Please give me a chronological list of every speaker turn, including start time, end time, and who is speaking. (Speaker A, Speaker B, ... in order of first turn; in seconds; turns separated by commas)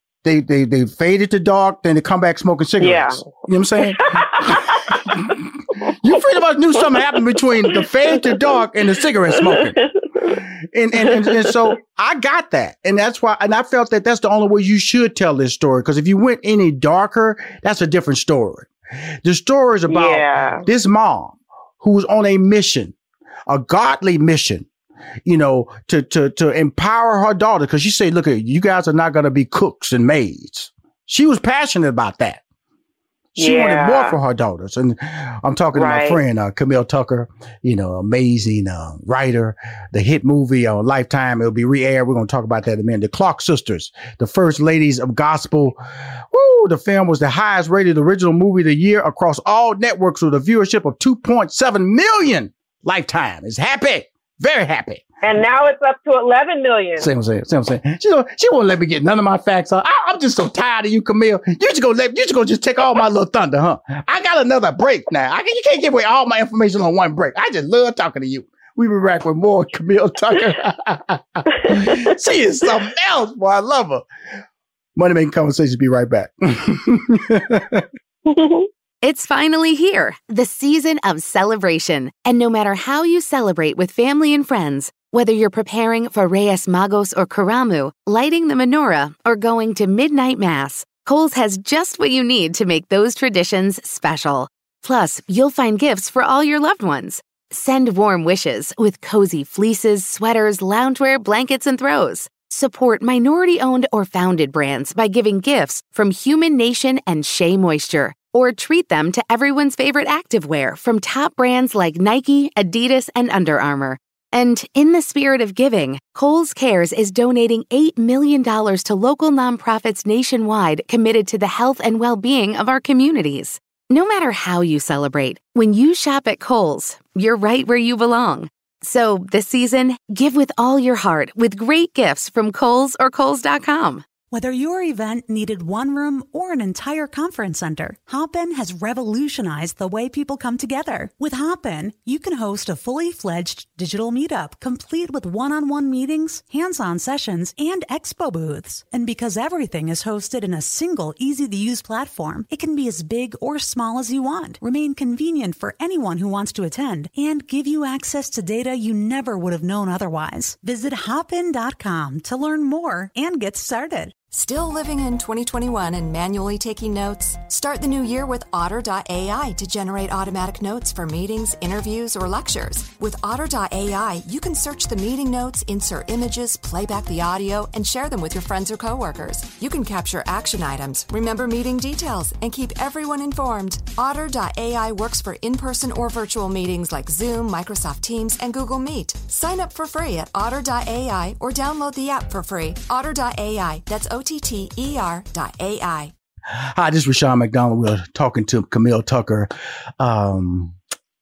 Speaker A: 0.2-9.8, Speaker B: 2.8-3.3, Speaker B: 4.0-5.1, Speaker B: 9.6-9.8, Speaker A: 10.7-18.7, Speaker B: 11.1-11.5, Speaker A: 19.2-22.9, Speaker B: 19.9-20.6, Speaker A: 23.5-24.7, Speaker A: 25.3-32.4, Speaker A: 33.4-45.8, Speaker B: 33.4-34.2, Speaker B: 35.7-36.2, Speaker A: 46.3-55.0, Speaker B: 55.2-57.1, Speaker A: 57.0-74.1, Speaker B: 71.7-72.1, Speaker A: 75.0-77.9, Speaker B: 78.3-78.7, Speaker C: 79.0-134.1, Speaker D: 134.3-164.1, Speaker E: 164.3-196.1, Speaker A: 196.6-200.8